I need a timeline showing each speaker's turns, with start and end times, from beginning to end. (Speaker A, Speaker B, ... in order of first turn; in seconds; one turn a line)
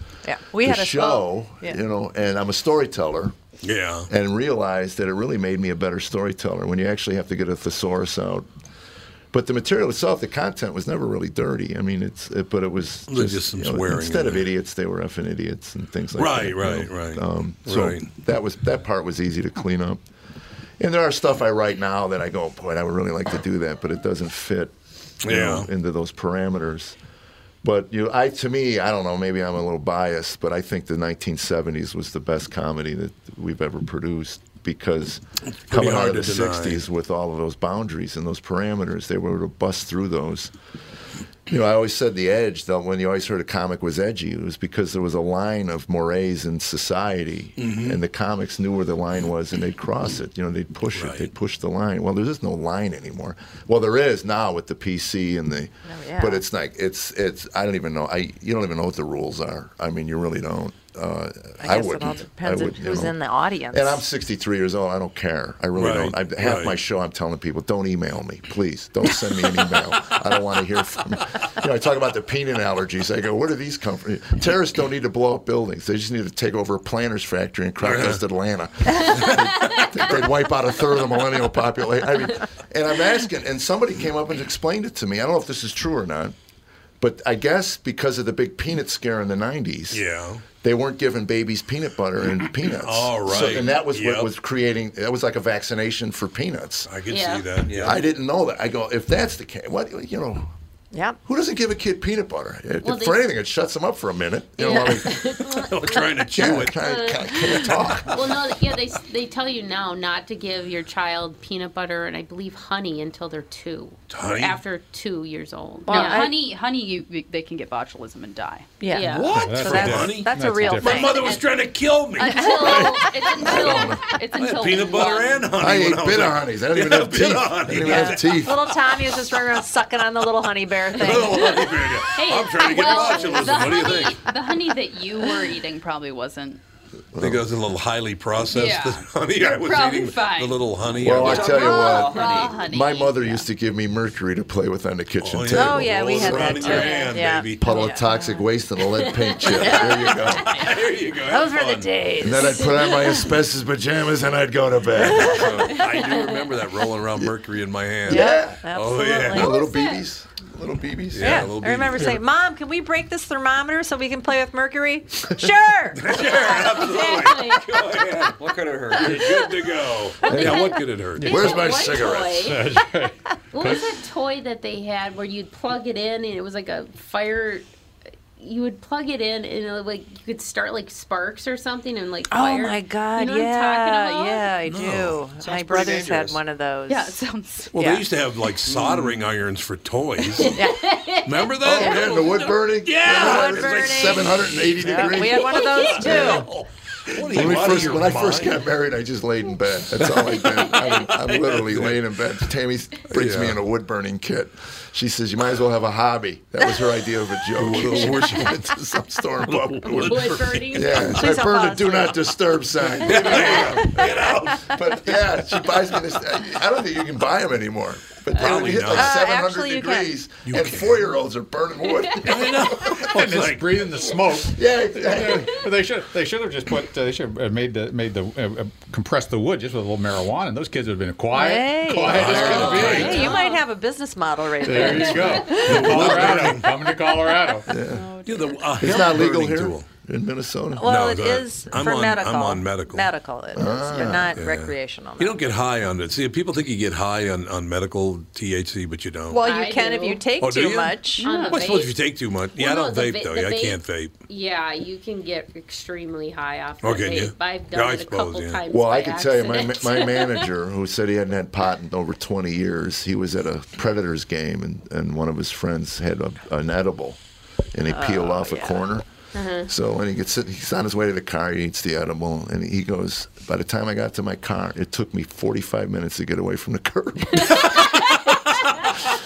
Speaker A: 0.2-1.8
Speaker B: 0.6-3.4
Speaker C: 3.6-4.1
Speaker B: 4.1-8.5
Speaker B: 9.3-20.0
Speaker C: 13.1-14.5
Speaker C: 16.1-18.1
Speaker B: 20.8-27.0
Speaker C: 25.2-25.7
Speaker B: 27.6-40.5
Speaker C: 35.4-36.9
Speaker B: 41.5-63.2
Speaker C: 47.6-48.0
Speaker C: 50.9-51.3
Speaker A: 55.9-56.4
Speaker A: 61.6-64.0
Speaker B: 63.7-86.3
Speaker C: 65.8-66.8
Speaker C: 77.8-78.2
Speaker B: 87.0-90.0
Speaker C: 89.9-90.4
Speaker B: 90.6-96.9
Speaker C: 92.7-94.3
Speaker C: 96.9-98.0
Speaker D: 97.1-97.5
Speaker E: 97.7-98.0
Speaker B: 97.8-100.5
Speaker A: 100.9-101.2
Speaker B: 101.2-105.3
Speaker D: 102.8-103.2
Speaker D: 104.6-116.3
Speaker A: 104.7-105.0
Speaker C: 105.5-106.8
Speaker B: 106.3-108.3
Speaker C: 114.1-114.6
Speaker A: 115.9-116.3
Speaker F: 115.9-118.7
Speaker A: 118.8-121.3
Speaker D: 118.9-119.5
Speaker C: 119.0-123.8
Speaker G: 119.4-121.2
Speaker D: 122.2-125.4
Speaker F: 122.4-125.4
Speaker B: 123.4-124.0
Speaker C: 124.3-128.5
Speaker B: 125.6-128.8
Speaker A: 127.8-131.6
Speaker C: 130.9-134.2
Speaker D: 131.1-134.2
Speaker F: 132.6-136.6
Speaker B: 137.1-137.4
Speaker C: 137.2-141.6
Speaker F: 138.5-140.6
Speaker B: 141.0-147.0
Speaker E: 141.2-142.5
Speaker F: 141.2-143.4
Speaker D: 141.7-142.6
Speaker C: 145.2-147.9
Speaker A: 145.5-148.3
Speaker D: 146.7-147.2
Speaker B: 147.6-150.5
Speaker D: 149.0-150.7
Speaker C: 149.5-151.9
Speaker A: 149.6-150.0
Speaker A: 151.3-152.8
Speaker B: 152.2-155.6
Speaker D: 152.4-153.3
Speaker C: 155.2-159.5
Speaker A: 155.2-155.5
Speaker D: 155.7-156.4
Speaker B: 158.1-158.7
Speaker A: 158.1-159.7
Speaker B: 159.3-161.5
Speaker D: 159.5-160.0
Speaker C: 161.1-162.2
Speaker A: 161.2-166.1
Speaker C: 165.9-168.4
Speaker D: 166.2-168.1
Speaker E: 168.4-169.2
Speaker C: 168.9-171.6
Speaker D: 169.2-169.5
Speaker D: 170.2-172.8
Speaker B: 170.3-170.6
Speaker B: 171.2-172.5
Speaker G: 172.4-173.8
Speaker D: 173.5-177.7
Speaker D: 178.4-184.5
Speaker A: 182.3-188.1
Speaker C: 184.7-185.2
Speaker E: 185.4-186.4
Speaker F: 186.9-187.7
Speaker C: 187.7-190.6
Speaker E: 188.7-189.3
Speaker D: 190.3-192.3
Speaker A: 190.6-191.0
Speaker C: 191.2-198.6
Speaker B: 191.6-196.5
Speaker A: 193.0-196.5
Speaker D: 195.7-196.4
Speaker B: 197.1-223.1
Speaker C: 200.0-202.0
Speaker C: 203.1-203.6
Speaker C: 207.6-208.6
Speaker C: 209.5-211.3
Speaker D: 209.9-211.4
Speaker A: 211.2-212.2
Speaker C: 213.0-215.2
Speaker C: 218.3-219.2
Speaker A: 218.9-220.1
Speaker C: 220.4-221.0
Speaker C: 222.2-223.9
Speaker G: 223.1-233.4
Speaker B: 224.4-225.6
Speaker A: 231.3-236.0
Speaker C: 232.1-233.4
Speaker G: 234.6-237.7
Speaker D: 234.9-235.6
Speaker C: 235.5-236.9
Speaker B: 237.7-238.1
Speaker F: 237.8-238.7
Speaker C: 238.3-239.9
Speaker B: 238.8-241.1
Speaker A: 240.8-245.4
Speaker C: 240.8-243.1
Speaker B: 243.5-244.4
Speaker C: 244.4-249.4
Speaker A: 249.3-251.3
Speaker D: 249.4-250.3
Speaker C: 250.4-254.2
Speaker D: 251.2-251.9
Speaker F: 251.2-251.6
Speaker D: 252.6-260.5
Speaker C: 256.8-258.6
Speaker B: 258.7-267.2
Speaker B: 267.7-269.1
Speaker A: 267.9-268.9
Speaker D: 269.3-269.7
Speaker B: 269.6-277.9
Speaker C: 277.5-279.1